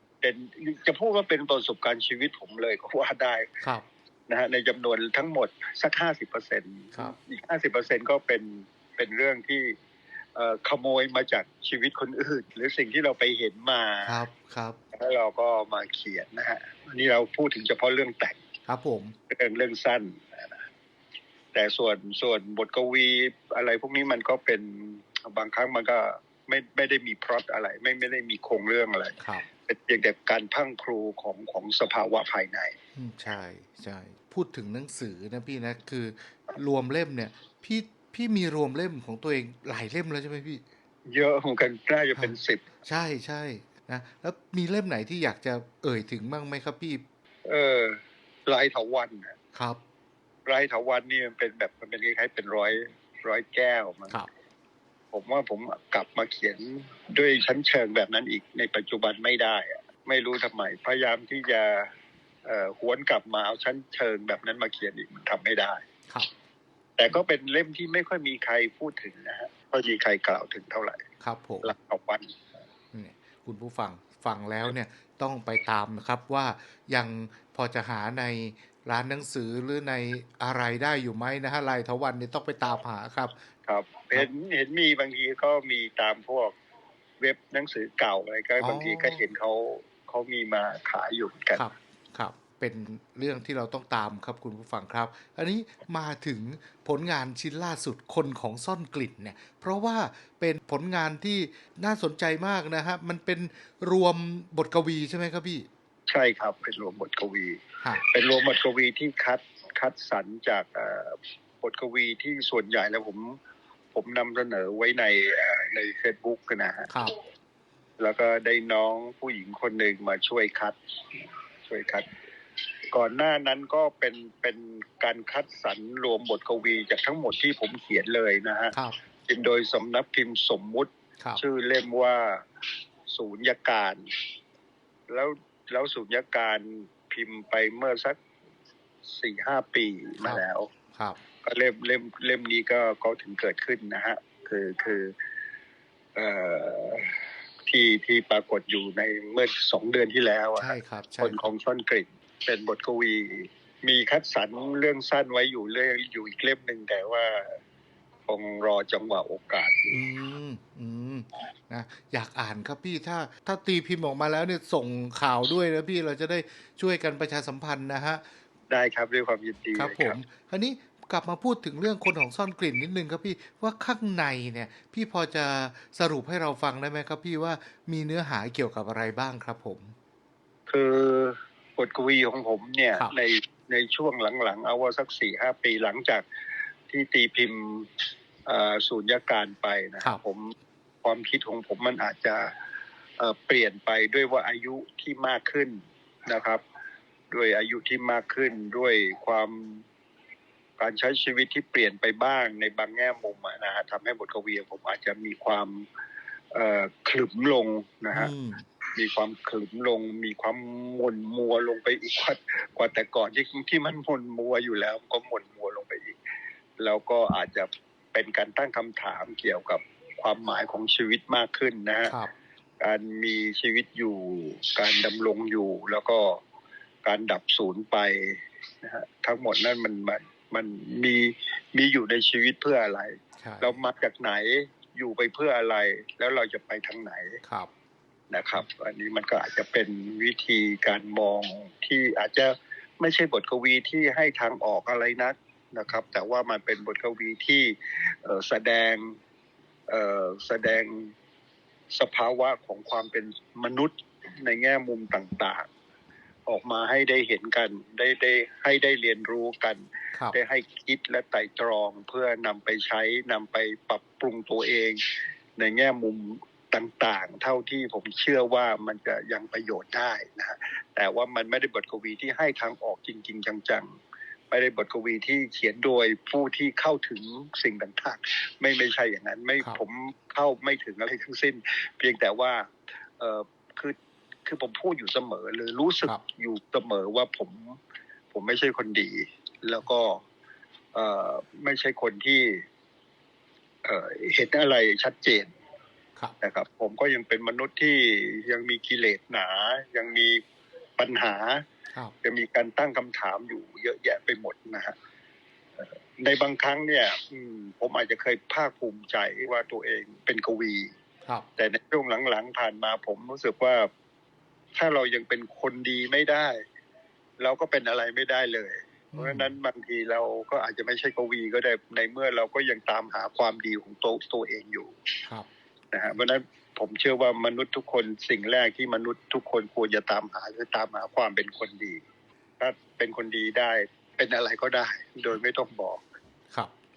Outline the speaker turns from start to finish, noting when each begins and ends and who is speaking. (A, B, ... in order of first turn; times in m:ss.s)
0:00.2-0:03.5 A
0:04.3-0:09.8 A
0:10.4-0:14.2 A
0:14.0-0:14.8 B
0:14.9-0:18.4 A
0:18.7-0:19.1 B
0:19.3-0:20.6 A
0:21.5-0:32.7 A
0:33.0-0:40.6 B
0:41.1-0:42.6 A
0:42.8-0:47.0 B
0:47.4-0:49.4 A
0:49.5-0:49.8 B
0:50.5-0:54.2 A
0:55.1-1:01.9 A
1:02.4-1:05.8 A
1:07.0-1:11.0 A
1:11.2-1:11.7 B
1:11.6-1:12.4 A
1:12.9-1:23.4 B
1:23.7-1:26.5 A
1:27.2-1:31.6 A
1:28.6-1:29.2 B
1:31.6-1:45.7 B
1:46.1-1:53.4 A
1:53.9-1:56.9 A
1:58.0-2:02.1 A
2:02.9-2:08.7 A
2:09.3-2:12.4 A
2:13.1-2:14.0 A
2:15.1-2:18.2 A
2:19.0-2:20.7 A
2:20.9-2:21.2 B
2:21.4-2:25.1 A
2:26.2-2:27.2 A
2:27.7-2:37.6 A
2:30.6-2:31.5 B
2:38.3-2:40.0 A
2:39.9-2:48.2 B
2:48.7-2:50.2 A
2:49.8-2:59.9 B
3:00.7-3:06.2 A
3:06.9-3:07.9 A
3:08.4-3:10.5 A
3:11.0-3:12.5 A
3:13.2-3:16.6 A
3:17.3-3:19.8 A
3:20.8-3:25.8 A
3:26.5-3:28.3 A
3:28.1-3:28.6 B
3:28.9-3:36.2 A
3:36.8-3:42.1 A
3:42.8-3:46.4 A
3:47.0-3:57.4 A
3:53.4-3:53.8 B
3:57.4-3:57.7 B
3:58.3-4:09.2 A
4:09.9-4:11.1 A
4:11.9-4:15.7 A
4:16.5-4:25.0 A
4:25.6-4:33.9 A
4:34.5-4:47.8 A
4:48.3-4:50.2 A
4:50.9-4:52.6 A
4:53.8-4:55.5 A
4:56.4-5:00.4 A
5:01.0-5:01.6 A
5:02.2-5:04.9 A
5:05.8-5:10.9 A
5:11.6-5:13.9 A
5:14.7-5:16.6 A
5:17.4-5:24.9 A
5:19.1-5:19.5 B
5:25.9-5:32.0 A
5:32.6-5:36.0 A